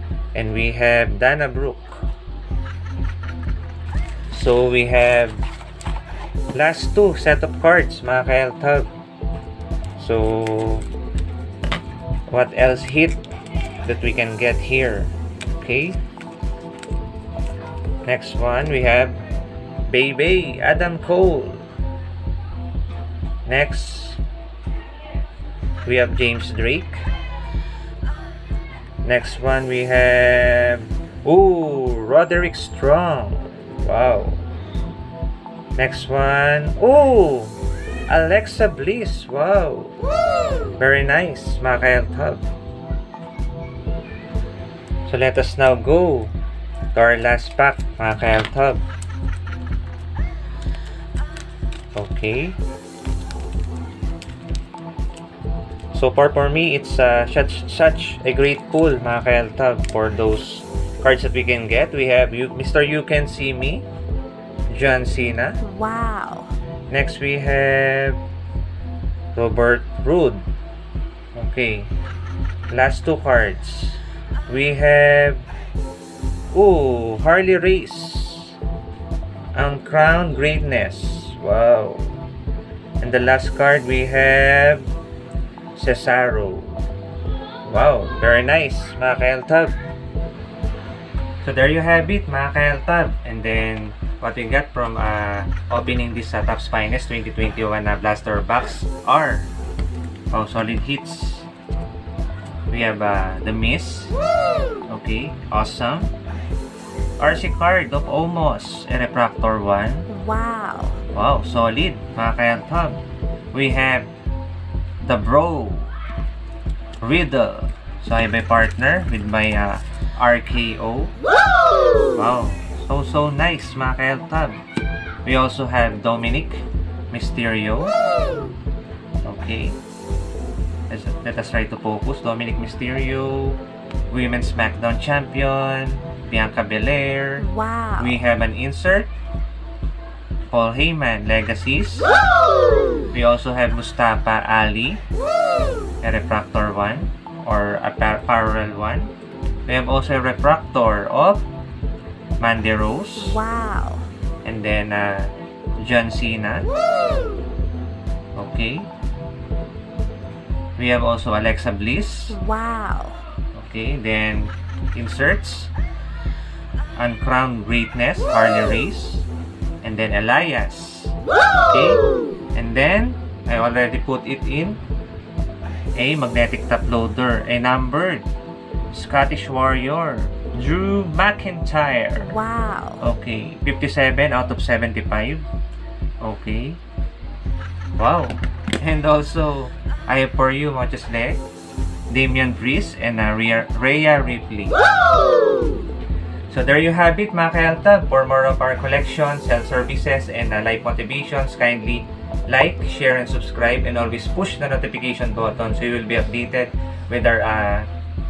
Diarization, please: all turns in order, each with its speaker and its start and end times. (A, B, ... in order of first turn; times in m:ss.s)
0:00.3-0:02.1 A
0:04.3-0:05.4 A
0:06.5-0:08.9 A
0:10.0-0:10.8 A
0:12.3-0:13.2 A
0:13.8-0:16.0 A
0:18.0-0:19.2 A
0:19.9-0:21.6 A
0:23.4-0:24.2 A
0:25.8-0:27.0 A
0:29.0-0:34.4 A
0:35.8-0:37.6 A
0:38.1-0:40.0 A
0:40.8-0:42.4 A
0:45.0-0:46.3 A
0:46.9-0:48.8 A
0:51.9-0:52.6 A
0:55.9-1:03.9 A
1:04.7-1:05.6 A
1:05.6-1:06.5 B
1:06.9-1:08.2 A
1:09.3-1:10.4 A
1:11.3-1:11.9 A
1:12.7-1:15.4 A
1:16.5-1:18.6 A
1:19.5-1:22.2 A
1:23.0-1:24.9 A
1:25.7-1:26.8 A
1:27.6-1:29.7 A
1:31.4-1:39.5 A
1:40.3-1:41.5 A
1:42.7-1:44.2 A
1:44.9-1:46.1 A
1:47.2-1:50.1 A
1:50.1-1:51.0 B
1:51.1-1:53.0 A
1:53.5-1:54.1 A
1:55.0-1:55.9 A
1:57.0-2:01.1 A
2:02.1-2:04.6 A
2:05.2-2:08.0 A
2:09.2-2:09.8 A
2:10.9-2:19.1 A
2:17.4-2:18.2 B
2:20.5-2:22.1 A
2:23.1-2:25.0 A
2:26.0-2:29.1 A
2:29.7-2:31.4 A
2:32.4-2:33.4 A
2:33.2-2:34.1 B
2:34.4-2:36.7 A
2:38.4-2:38.9 A
2:40.8-2:42.4 A
2:42.3-2:43.2 B
2:43.5-2:45.7 A
2:47.0-2:49.3 A
2:49.8-2:52.0 A
2:52.5-2:54.8 A
2:55.9-2:58.3 A
2:58.9-3:02.3 A
3:02.2-3:03.0 B
3:03.0-3:05.5 A
3:06.2-3:06.8 A
3:08.0-3:11.4 A
3:12.1-3:14.8 A
3:16.5-3:27.9 A